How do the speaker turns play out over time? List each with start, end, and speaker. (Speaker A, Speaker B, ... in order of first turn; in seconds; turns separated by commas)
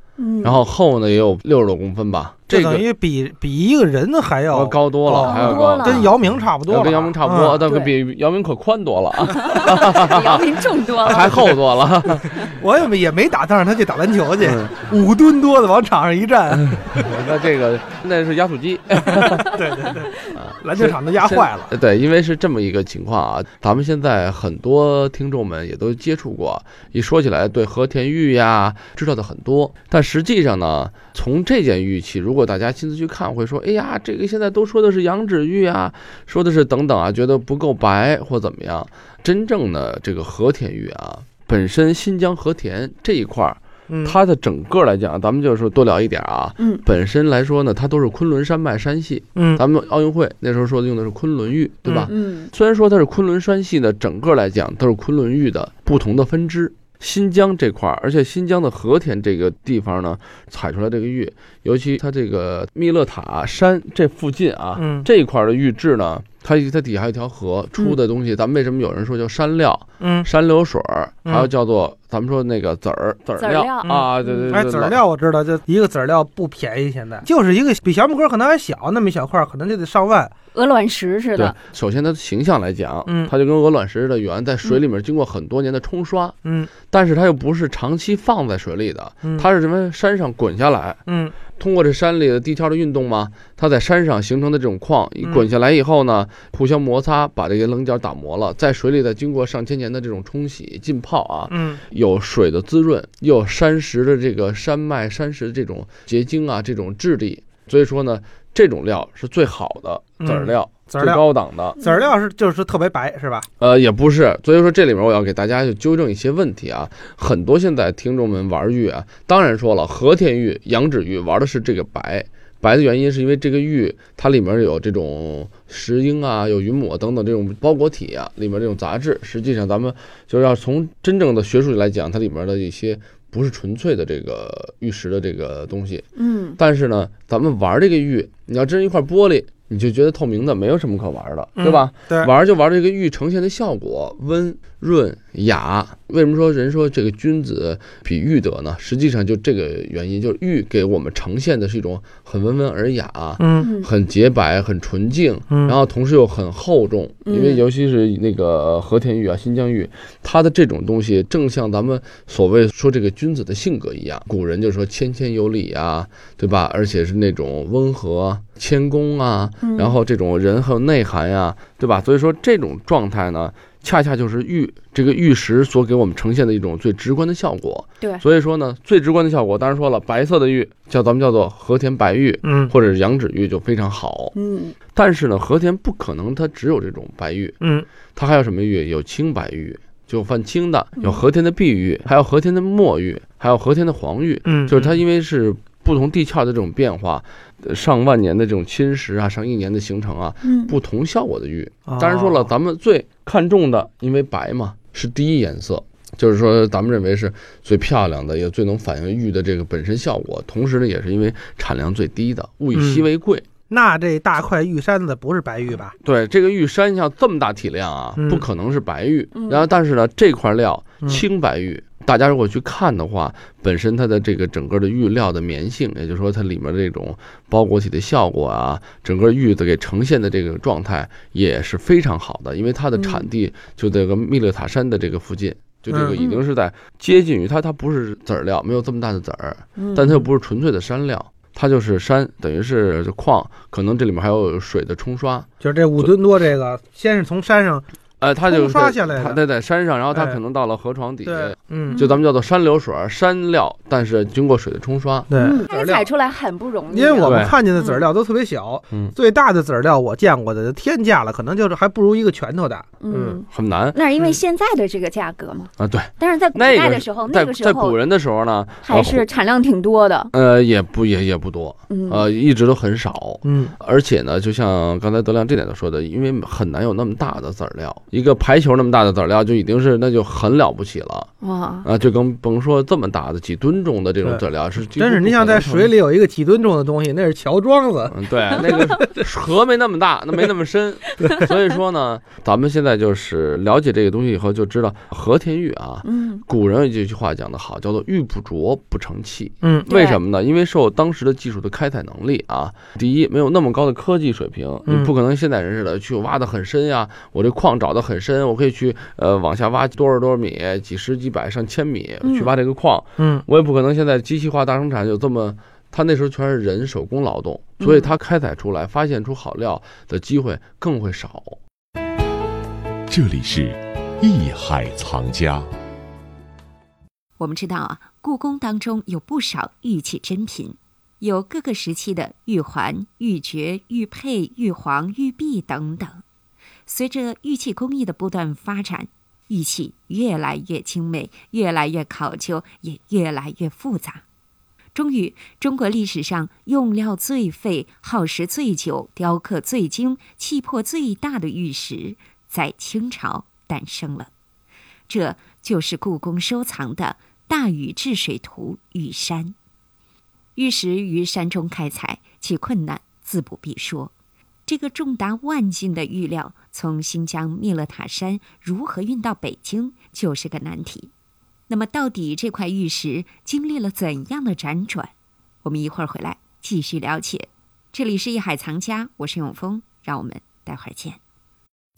Speaker A: 0.2-0.6, Speaker B: 0.4-2.9, Speaker C: 2.5-7.7, Speaker B: 4.5-6.2, Speaker A: 5.2-6.1, Speaker B: 6.7-10.4, Speaker A: 7.7-7.9, Speaker A: 9.3-11.4, Speaker B: 11.1-12.5, Speaker C: 12.4-17.1, Speaker B: 14.4-14.8, Speaker B: 16.5-19.6, Speaker C: 19.1-21.7, Speaker B: 20.3-75.0, Speaker C: 43.9-44.2, Speaker C: 49.4-49.6, Speaker A: 52.1-52.5, Speaker C: 64.8-65.1, Speaker C: 70.0-70.3, Speaker A: 73.4-74.5, Speaker C: 73.8-80.3, Speaker A: 80.5-81.6, Speaker B: 81.4-86.4, Speaker C: 83.1-83.3, Speaker C: 86.4-86.7, Speaker B: 86.9-111.8, Speaker C: 91.1-91.4, Speaker C: 95.2-95.5, Speaker C: 101.5-101.8, Speaker C: 110.2-111.2, Speaker C: 111.8-113.5, Speaker A: 111.8-112.1, Speaker B: 113.6-136.1, Speaker A: 136.2-136.6, Speaker B: 136.6-184.3, Speaker C: 141.6-142.3, Speaker C: 153.4-153.7, Speaker A: 153.6-153.9, Speaker C: 155.5-155.8, Speaker A: 157.3-157.6, Speaker A: 169.6-170.0, Speaker C: 182.4-182.7, Speaker A: 184.3-184.8, Speaker B: 184.9-187.6, Speaker C: 187.6-187.9, Speaker B: 188.2-213.5, Speaker C: 194.5-195.0, Speaker A: 200.4-200.8, Speaker C: 201.9-202.5, Speaker C: 212.7-213.1, Speaker C: 213.7-215.9, Speaker B: 216.0-246.1, Speaker C: 218.2-218.4, Speaker A: 219.4-219.7, Speaker A: 233.0-233.3, Speaker C: 235.9-236.2, Speaker A: 236.2-236.4, Speaker A: 239.8-240.2, Speaker C: 245.6-247.8, Speaker B: 248.2-255.3, Speaker C: 248.4-249.4, Speaker C: 250.1-250.4, Speaker C: 251.2-252.0, Speaker A: 251.9-252.2, Speaker C: 255.3-256.1, Speaker A: 255.4-258.0, Speaker C: 256.9-263.4, Speaker B: 257.2-257.6, Speaker A: 263.0-268.0, Speaker B: 263.5-264.0, Speaker B: 265.8-269.3, Speaker A: 268.8-270.3, Speaker B: 270.3-281.3, Speaker A: 271.9-272.2, Speaker C: 273.4-273.8, Speaker A: 281.4-281.9, Speaker B: 281.8-285.9, Speaker C: 284.2-289.2, Speaker B: 288.1-321.6, Speaker A: 296.0-296.4, Speaker C: 299.6-299.9, Speaker A: 299.9-300.2, Speaker C: 304.9-305.1, Speaker A: 312.2-312.5, Speaker C: 313.2-313.4, Speaker A: 317.8-318.1, Speaker D: 323.1-325.6, Speaker E: 327.4-330.7, Speaker E: 331.3-336.1, Speaker E: 336.9-339.0, Speaker E: 339.5-344.1, Speaker E: 344.9-354.3, Speaker E: 355.1-359.5, Speaker E: 360.6-364.1, Speaker E: 364.7-371.1, Speaker E: 371.7-375.0, Speaker E: 375.9-377.4, Speaker E: 378.0-381.1